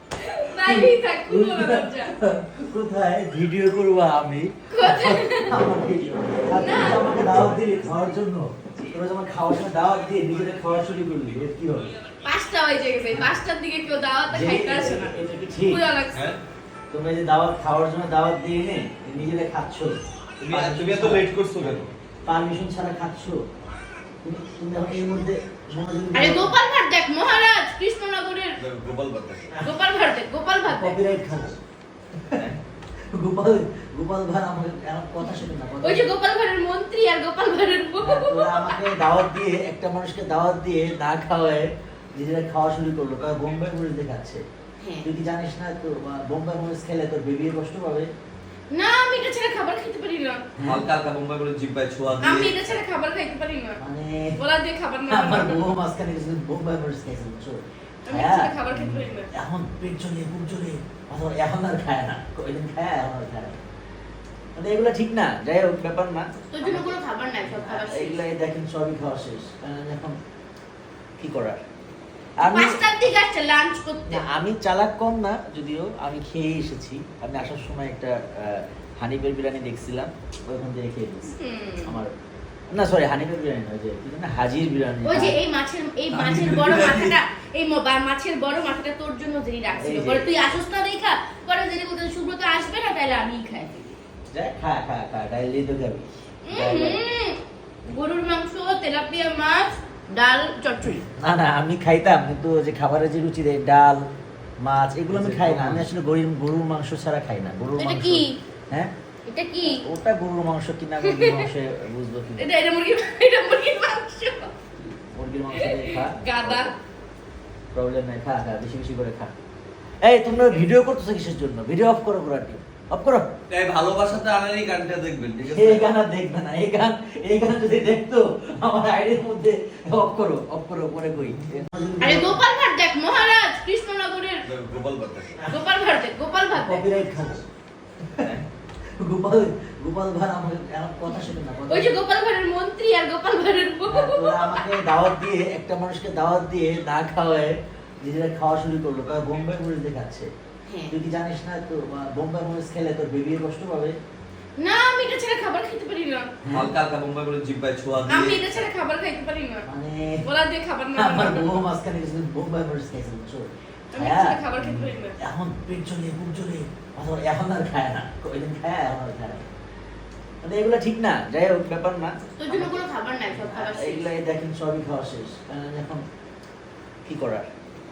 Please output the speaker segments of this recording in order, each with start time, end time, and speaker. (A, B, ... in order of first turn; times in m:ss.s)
0:00.2-0:02.2 A
0:00.6-0:11.9 B
0:04.7-0:05.6 A
0:06.6-0:07.0 A
0:12.2-0:16.2 A
0:14.3-0:15.8 B
0:16.1-0:16.4 C
0:16.9-0:23.4 B
0:20.4-0:21.8 C
0:24.2-0:26.6 B
0:26.1-0:28.6 A
0:28.6-0:29.5 C
0:29.6-0:31.0 A
0:30.7-0:31.6 B
0:32.2-0:32.6 B
0:33.1-0:36.1 B
0:35.8-0:39.0 A
0:38.0-0:44.4 B
0:44.8-0:45.1 A
0:45.0-0:48.1 B
0:48.7-0:50.4 A
0:50.6-0:50.9 B
0:50.6-0:52.7 C
0:52.2-0:53.8 A
0:53.8-0:54.4 B
0:54.4-0:55.8 A
0:55.1-1:03.6 B
0:58.0-0:59.3 A
1:04.6-1:10.2 B
1:06.5-1:08.2 A
1:11.2-1:11.6 B
1:12.4-1:12.8 B
1:12.4-1:14.2 A
1:14.1-1:22.1 B
1:21.3-1:22.0 A
1:22.7-1:25.4 B
1:25.0-1:34.0 A
1:26.1-1:27.2 C
1:29.7-1:30.5 B
1:34.3-1:37.0 B
1:36.4-1:37.4 A
1:37.9-1:41.0 A
1:41.2-1:44.0 B
1:44.6-1:48.9 B
1:45.1-1:45.9 C
1:47.8-1:48.4 A
1:49.3-1:49.8 A
1:49.6-1:52.5 B
1:51.0-1:51.5 A
1:52.4-1:54.5 A
1:54.8-1:56.7 B
1:55.5-1:56.7 A
1:57.7-1:59.3 B
2:00.0-2:03.3 B
2:03.5-2:05.9 C
2:05.4-2:12.4 B
2:12.0-2:14.4 A
2:14.5-2:15.4 C
2:15.5-2:16.9 A
2:16.5-2:17.4 B
2:18.0-2:18.3 B
2:19.0-2:22.0 B
2:21.1-2:24.8 A
2:23.9-2:30.3 B
2:30.7-2:31.0 A
2:30.9-2:34.0 B
2:34.6-2:36.3 A
2:36.4-2:36.7 B
2:36.5-2:38.5 C
2:38.1-2:39.6 A
2:39.7-2:40.2 B
2:40.2-2:41.6 A
2:41.0-2:49.5 B
2:43.9-2:45.2 A
2:50.4-2:56.0 B
2:52.4-2:54.1 A
2:57.1-2:57.5 B